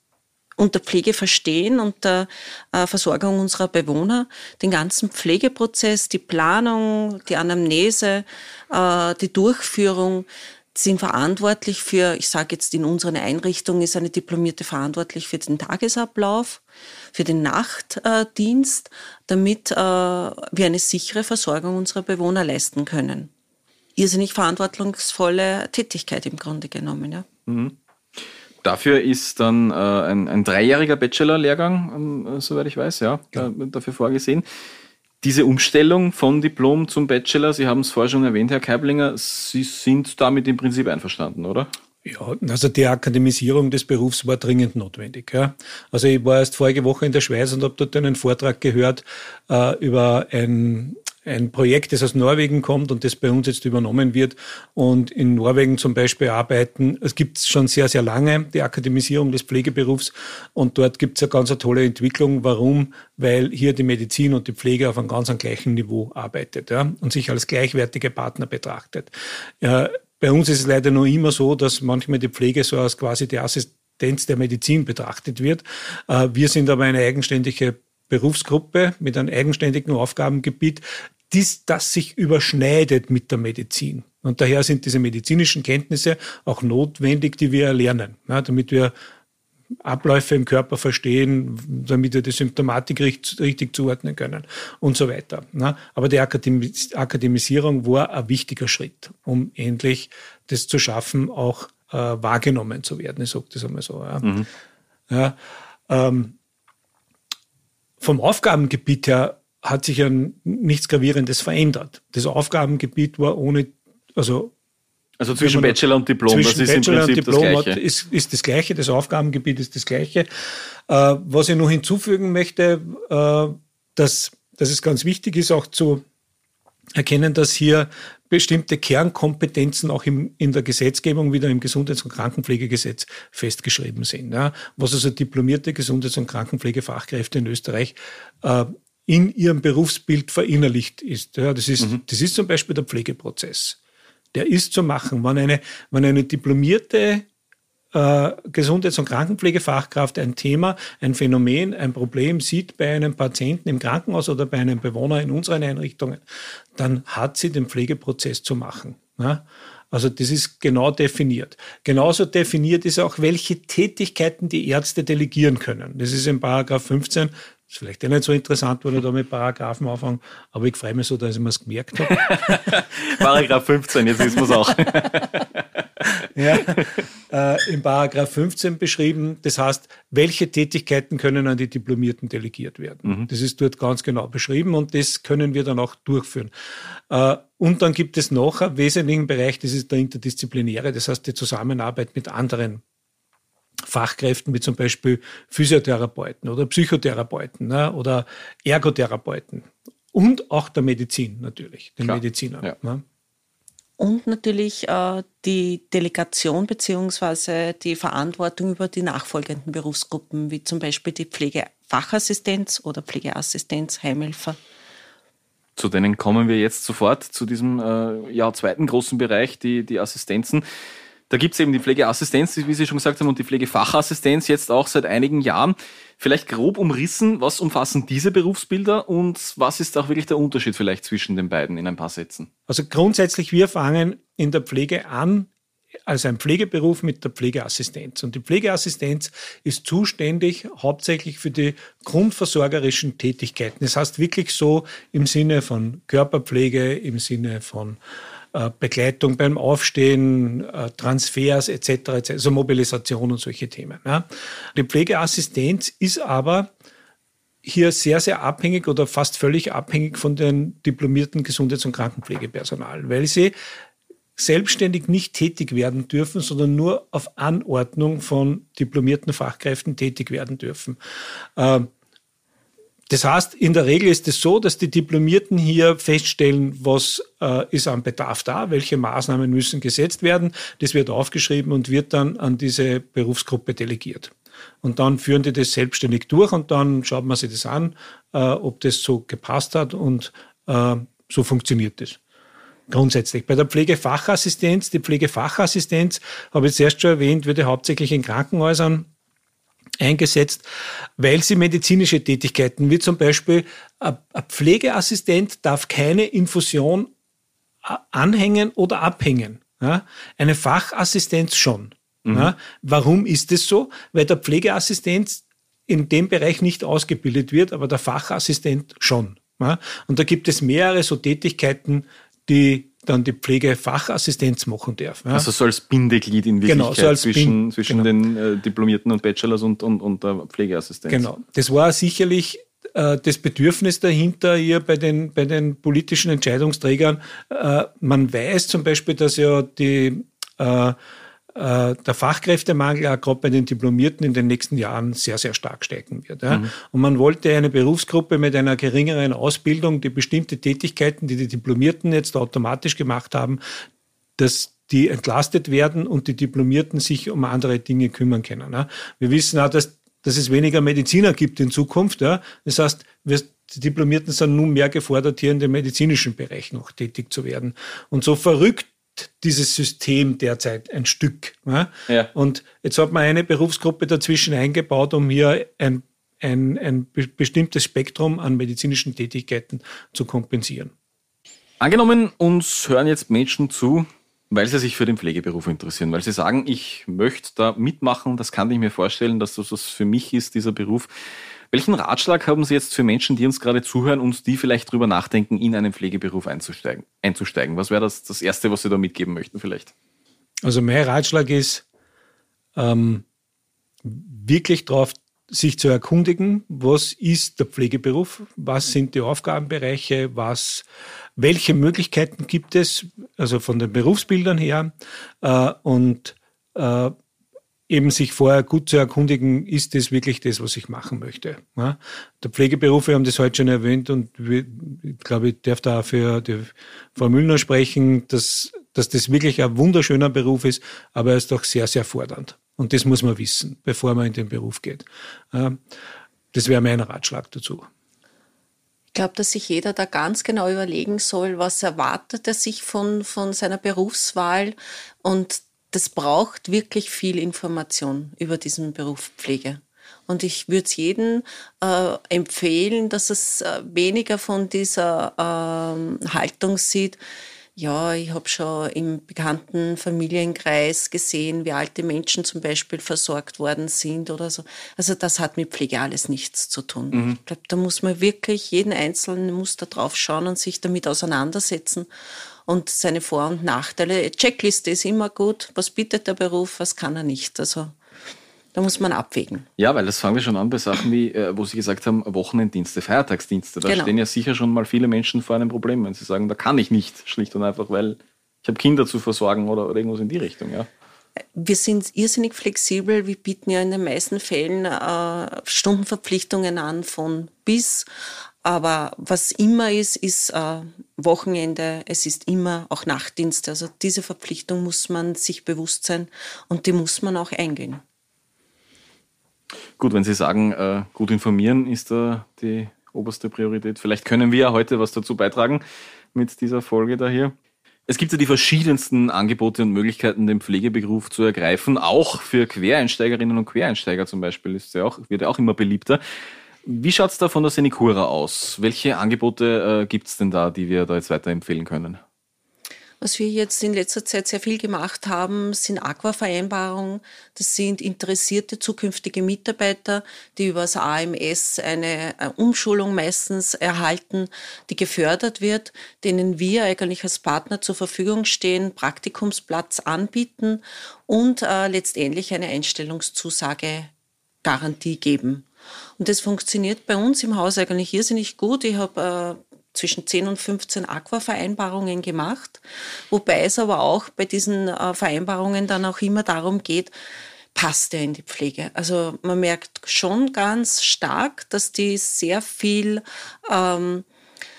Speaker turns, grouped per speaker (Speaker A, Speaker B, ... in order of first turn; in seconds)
Speaker A: 0.6-16.6, 17.1-23.3, 24.0-27.3, 204.0-214.6, 439.1-457.2, 457.8-472.1, 472.7-478.0, 478.7-479.7, 483.9-484.1, 491.6-498.1, 498.6-508.0, 533.2-554.1, 554.6-555.7, 556.2-567.1, 567.7-574.3
Speaker B: 27.5-27.8, 28.6-34.5, 35.2-41.7, 115.2-117.8, 172.1-175.6, 176.6-176.9, 202.0-202.7, 215.8-220.6, 221.3-232.5, 312.2-312.5, 325.3-331.3, 381.8-391.1, 391.7-399.9, 467.1-467.4, 479.8-490.9, 510.0-515.8, 516.3-517.5, 518.1-526.2, 526.9-532.2
Speaker C: 42.0-88.9, 89.8-104.3, 105.1-105.4, 105.9-106.3, 108.0-114.5, 115.4-126.0, 127.0-143.8, 144.3-147.3, 147.9-156.2, 156.8-173.3, 176.3-192.8, 193.9-203.0, 232.7-235.5, 236.1-248.0, 248.5-256.7, 257.6-263.5, 264.4-271.0, 271.6-271.9, 273.1-292.2, 292.9-299.1, 300.0-307.1, 307.8-325.5, 326.6-328.1, 331.1-341.0, 341.5-353.6, 354.4-380.9, 400.6-401.9, 402.8-403.2, 404.0-410.9, 411.4-417.1, 417.9-435.8, 436.5-437.9